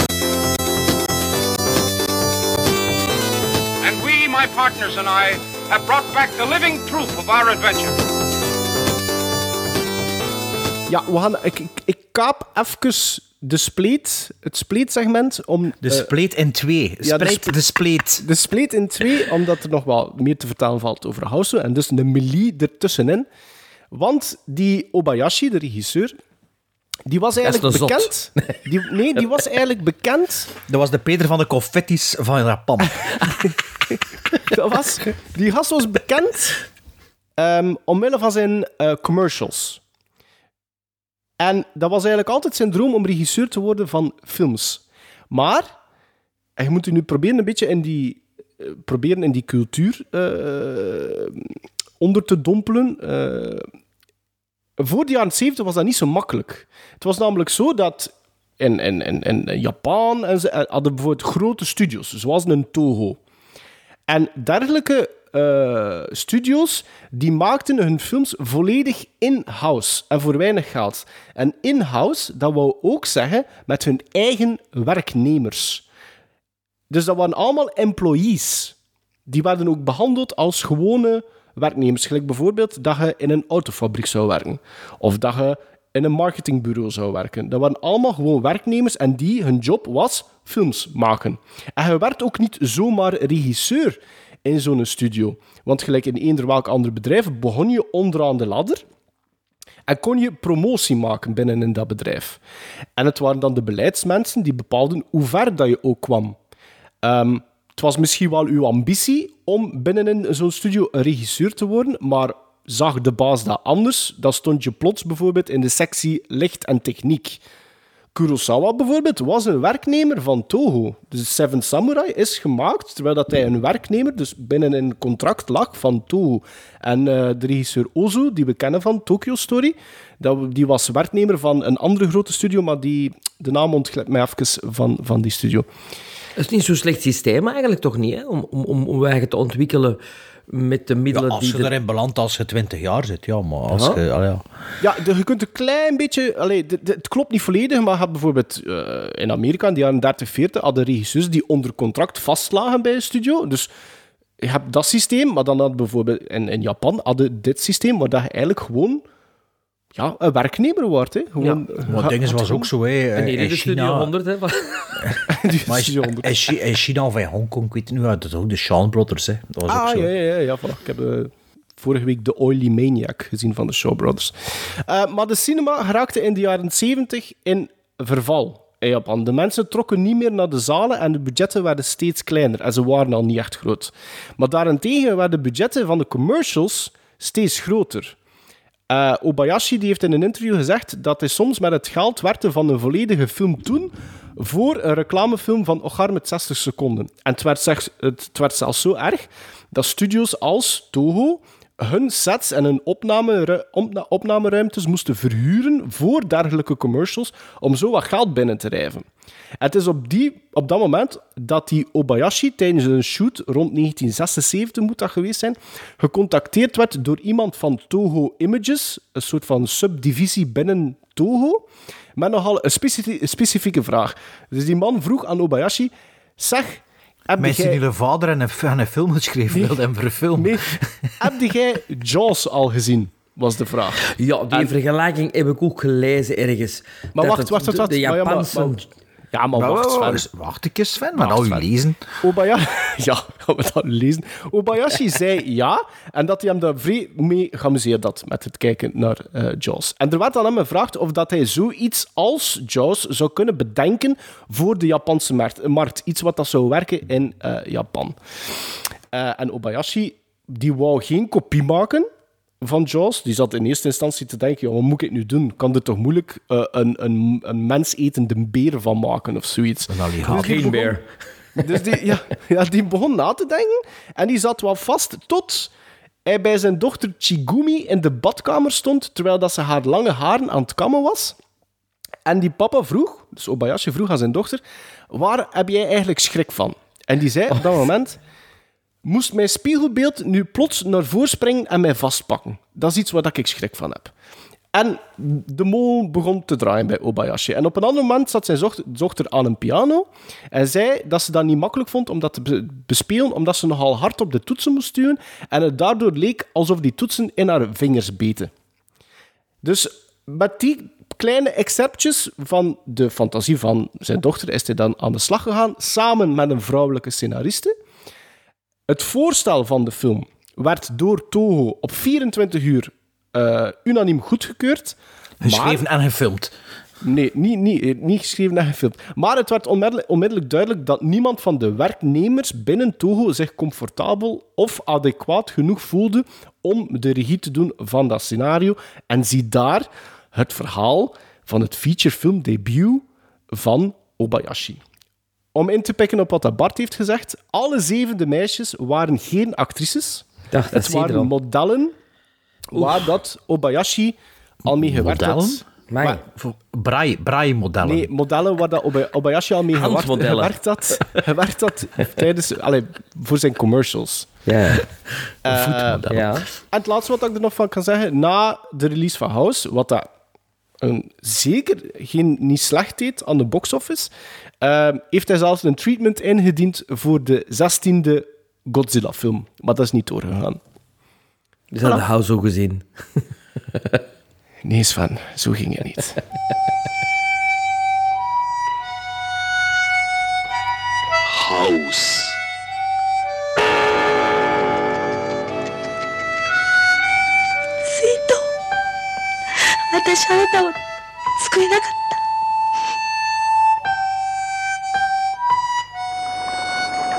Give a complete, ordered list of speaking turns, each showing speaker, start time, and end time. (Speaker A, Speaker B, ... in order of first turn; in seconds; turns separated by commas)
Speaker A: 3.8-8.0, Speaker B: 10.9-16.1, Speaker C: 15.8-18.2, Speaker B: 17.0-17.6, Speaker B: 18.2-23.3, Speaker B: 23.9-26.1, Speaker B: 27.1-30.5, Speaker D: 27.4-28.5, Speaker C: 30.7-33.2, Speaker B: 34.5-36.6, Speaker B: 37.4-39.8, Speaker B: 41.4-45.7, Speaker B: 46.6-51.5, Speaker B: 52.0-53.7, Speaker B: 54.8-63.2, Speaker B: 64.1-75.8, Speaker B: 76.9-78.7, Speaker B: 79.3-98.8, Speaker B: 99.9-102.4, Speaker B: 103.0-106.4, Speaker B: 107.0-117.4, Speaker B: 118.1-135.7, Speaker D: 136.4-141.7, Speaker C: 141.1-144.4, Speaker D: 143.7-144.0, Speaker B: 144.8-153.7, Speaker B: 154.4-159.0, Speaker B: 159.9-162.7, Speaker C: 161.9-164.1, Speaker D: 163.2-164.9, Speaker B: 165.3-166.3, Speaker C: 165.7-170.1, Speaker B: 169.7-174.3, Speaker B: 174.9-188.1, Speaker B: 188.9-209.1, Speaker B: 209.6-221.6, Speaker B: 222.2-227.8, Speaker C: 227.4-230.9, Speaker B: 229.5-229.8, Speaker B: 230.4-234.7, Speaker D: 234.1-238.8, Speaker B: 237.2-238.8, Speaker B: 239.3-240.2, Speaker C: 239.5-242.0, Speaker B: 241.2-241.7, Speaker B: 242.2-258.2, Speaker B: 259.1-262.1, Speaker B: 262.6-271.0, Speaker C: 269.9-270.7, Speaker D: 270.3-271.0, Speaker B: 271.6-275.7, Speaker B: 276.3-281.4, Speaker B: 282.3-288.2, Speaker B: 289.0-294.1, Speaker B: 294.7-308.5, Speaker B: 309.6-317.7, Speaker B: 318.9-325.8, Speaker C: 325.4-326.5, Speaker B: 327.0-344.8, Speaker B: 345.6-351.9, Speaker D: 350.5-351.3, Speaker B: 352.7-356.2, Speaker C: 354.7-355.6, Speaker D: 355.9-356.2, Speaker C: 356.3-358.1, Speaker B: 357.8-364.3, Speaker D: 359.7-360.5, Speaker D: 364.4-364.8, Speaker C: 365.4-366.4, Speaker B: 365.4-366.1, Speaker D: 366.1-366.4, Speaker B: 366.7-370.1, Speaker B: 370.8-374.1, Speaker B: 374.6-380.6, Speaker D: 381.7-383.2, Speaker D: 383.7-384.0, Speaker B: 384.6-386.2, Speaker E: 397.9-398.4, Speaker E: 399.9-400.7, Speaker E: 401.4-402.1